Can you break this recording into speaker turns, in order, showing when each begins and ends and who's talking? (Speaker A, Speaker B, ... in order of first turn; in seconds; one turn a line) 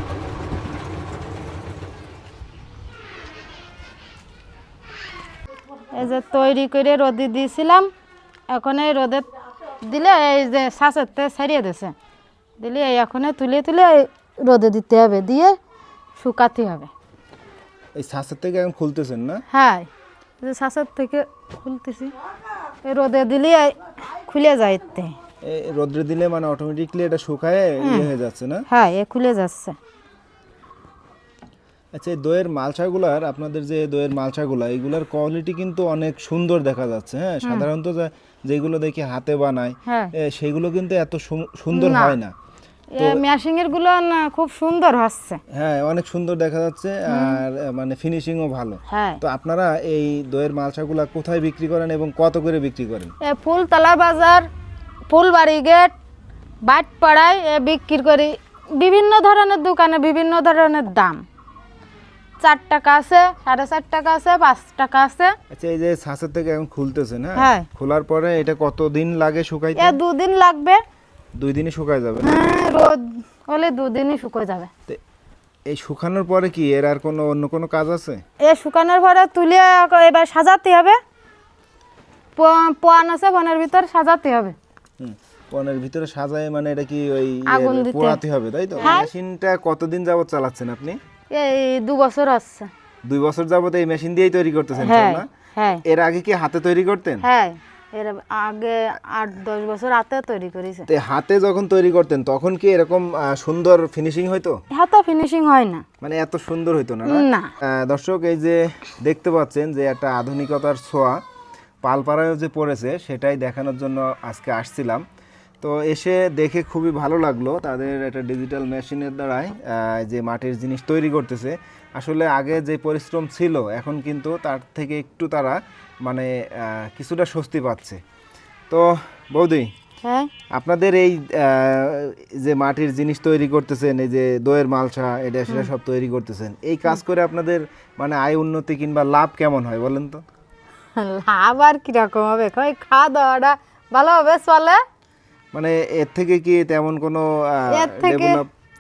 Speaker A: 5.9-7.9
Speaker A: 8.5-9.3
Speaker A: 9.8-11.9
Speaker A: 12.6-15.6
Speaker A: 16.2-16.9
Speaker B: 18.0-19.4
Speaker A: 19.5-19.9
Speaker A: 20.4-22.1
Speaker A: 22.8-25.1
Speaker B: 25.4-28.7
Speaker A: 27.8-28.1
Speaker A: 28.7-29.8
Speaker B: 31.9-42.3
Speaker A: 37.4-37.7
Speaker A: 39.9-40.1
Speaker A: 41.7-42.2
Speaker A: 42.9-45.4
Speaker B: 45.5-53.1
Speaker A: 47.1-47.4
Speaker A: 48.9-49.2
Speaker A: 53.2-54.5
Speaker A: 55.1-56.0
Speaker A: 56.6-61.2
Speaker A: 62.4-65.3
Speaker B: 65.5-70.0
Speaker A: 67.4-67.7
Speaker A: 69.8-70.8
Speaker B: 71.4-72.3
Speaker A: 72.2-74.7
Speaker B: 75.7-78.2
Speaker A: 78.4-81.0
Speaker A: 82.4-84.6
Speaker B: 85.0-91.0
Speaker A: 87.5-88.2
Speaker A: 88.8-89.1
Speaker A: 91.3-92.7
Speaker B: 93.0-95.3
Speaker A: 94.8-95.8
Speaker B: 95.8-97.2
Speaker A: 97.2-100.9
Speaker B: 100.9-104.6
Speaker A: 104.7-105.8
Speaker B: 106.0-111.2
Speaker A: 107.1-107.5
Speaker B: 111.8-115.0
Speaker B: 115.6-128.0
Speaker B: 128.7-129.7
Speaker A: 130.0-130.3
Speaker B: 130.5-140.2
Speaker A: 141.0-144.8
Speaker B: 145.5-148.5
Speaker A: 147.7-148.4